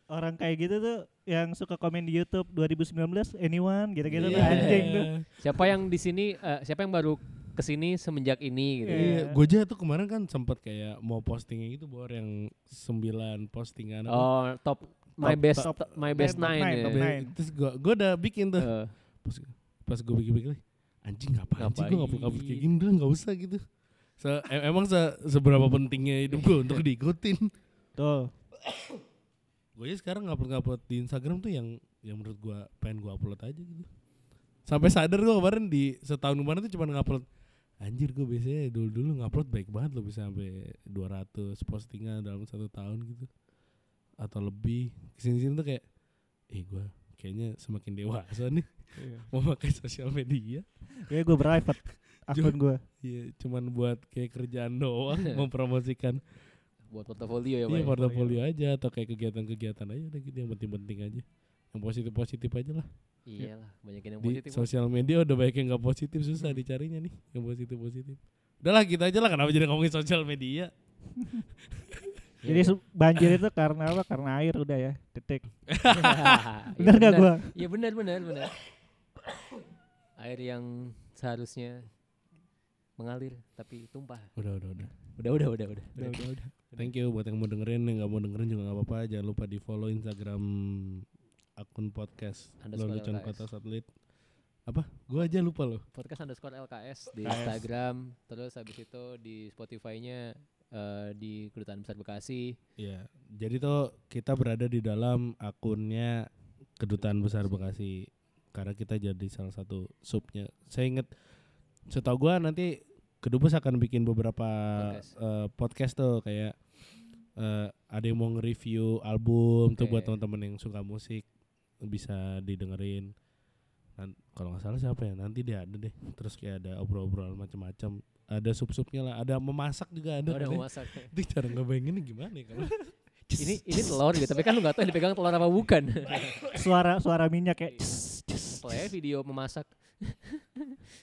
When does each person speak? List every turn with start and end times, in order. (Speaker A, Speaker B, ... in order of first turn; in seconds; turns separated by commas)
Speaker A: 0.1-5.1, Speaker B: 4.1-5.7, Speaker C: 4.2-9.1, Speaker A: 8.9-9.4, Speaker B: 8.9-14.3, Speaker C: 14.1-17.0, Speaker B: 15.2-23.6, Speaker A: 15.2-17.4, Speaker C: 18.6-18.9, Speaker C: 21.6-22.7, Speaker B: 24.1-27.5, Speaker A: 28.0-28.3, Speaker B: 29.8-33.9, Speaker B: 34.6-37.2, Speaker B: 37.8-43.3, Speaker B: 44.2-56.7, Speaker A: 49.0-49.3, Speaker A: 51.1-52.8, Speaker C: 56.9-58.0, Speaker B: 57.7-62.9, Speaker A: 57.9-58.4, Speaker C: 63.3-64.7, Speaker B: 64.2-72.1, Speaker C: 72.4-72.8, Speaker A: 72.5-75.6, Speaker B: 75.7-76.5, Speaker C: 75.9-78.5, Speaker A: 76.8-77.6, Speaker C: 80.2-81.9, Speaker C: 83.0-84.4, Speaker B: 84.4-85.2, Speaker C: 85.1-86.9, Speaker A: 86.0-86.5, Speaker B: 86.7-91.0, Speaker B: 91.6-94.0, Speaker C: 92.6-93.5, Speaker B: 94.6-95.8, Speaker C: 95.9-102.6, Speaker A: 97.2-97.6, Speaker B: 102.8-111.1, Speaker C: 107.0-107.8, Speaker B: 111.9-112.7, Speaker B: 113.2-116.8, Speaker C: 114.8-115.1, Speaker B: 117.4-121.3, Speaker C: 119.8-120.1, Speaker B: 121.8-123.1, Speaker B: 124.0-133.3, Speaker C: 130.3-131.1, Speaker C: 133.4-136.3, Speaker A: 136.5-138.9, Speaker C: 138.4-140.4